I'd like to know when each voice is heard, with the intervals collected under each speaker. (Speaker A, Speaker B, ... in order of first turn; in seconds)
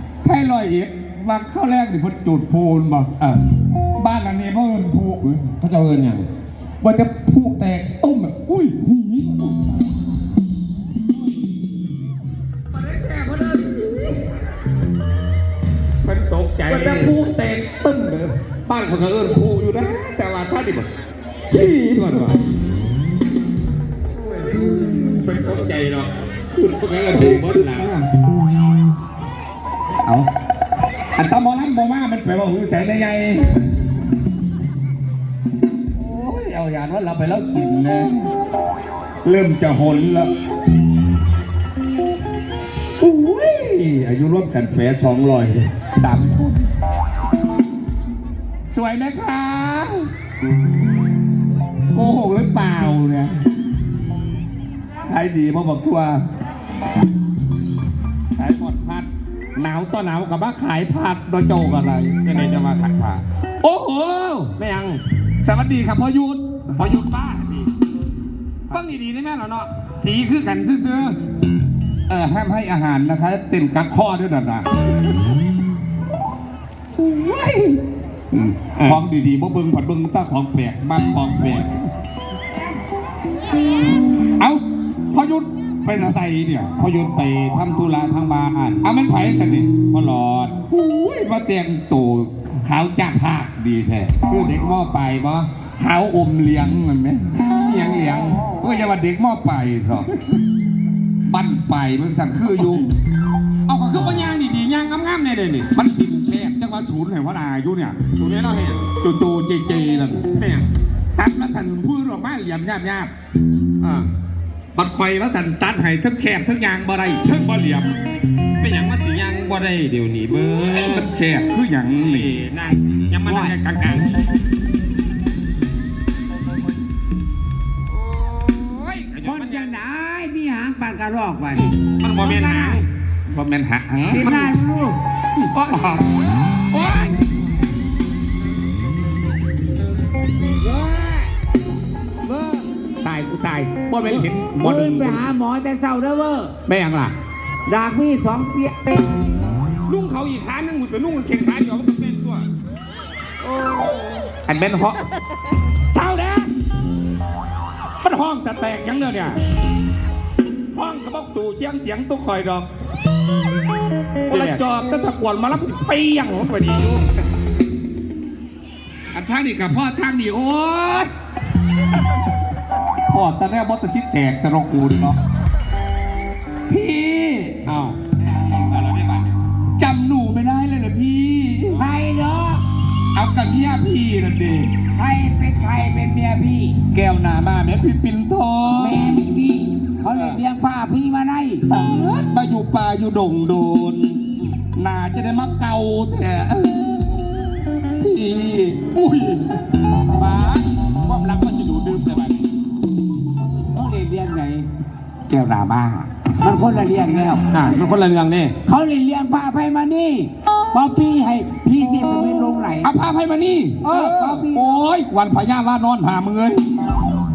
Speaker A: 0.2-3.1, 4.0-5.5, 6.8-9.7, 12.8-14.2, 16.7-20.9, 21.5-22.4, 24.2-25.5, 26.5-28.1, 30.0-30.3, 31.1-33.6, 36.0-38.3, 39.2-40.3, 43.0-46.7, 48.7-50.1, 51.9-53.4, 55.1-56.2, 58.4-62.2, 63.6-64.5, 65.4-66.4, 72.1-74.7, 77.0-77.8, 78.3-81.7, 84.2-86.7, 88.8-89.8, 90.7-94.4, 95.8-100.2, 101.3-102.9, 105.7-108.0, 109.0-110.3, 111.2-113.1, 114.8-118.0, 120.5-122.3, 133.3-134.6, 135.5-137.2, 143.0-145.3, 146.7-147.2, 154.5-155.0, 155.9-156.5, 158.0-159.4, 160.7-162.7, 164.3-167.1, 169.1-171.1, 173.1-175.2, 176.7-177.5, 179.8-181.8, 183.2-184.7, 186.9-189.1, 191.7-197.3, 198.0-199.5, 205.3-206.1, 212.8-216.6
Speaker B: 5.6-6.3, 16.1-17.2, 25.3-26.1, 27.1-27.9, 62.2-63.2, 64.6-65.0, 66.8-67.7, 68.7-71.2, 78.8-79.0, 86.8-88.8, 89.9-90.6, 94.3-95.5, 97.6-98.4, 103.7-105.7, 108.1-108.8, 110.3-110.7, 113.8-114.1, 118.6-121.1, 121.9-124.1, 128.1-129.8, 131.5-132.9, 135.4-136.1, 149.9-152.5, 164.3-164.6, 177.7-179.3, 190.1-190.4, 200.1-202.4, 207.5-208.5
Speaker C: 123.3-123.6, 129.2-132.8, 134.1-135.0, 140.7-141.3, 142.3-142.7, 144.0-146.6, 147.7-148.8, 181.8-182.6, 184.9-186.8, 188.7-191.6, 203.7-204.7, 206.4-207.4, 208.7-212.9, 213.8-214.8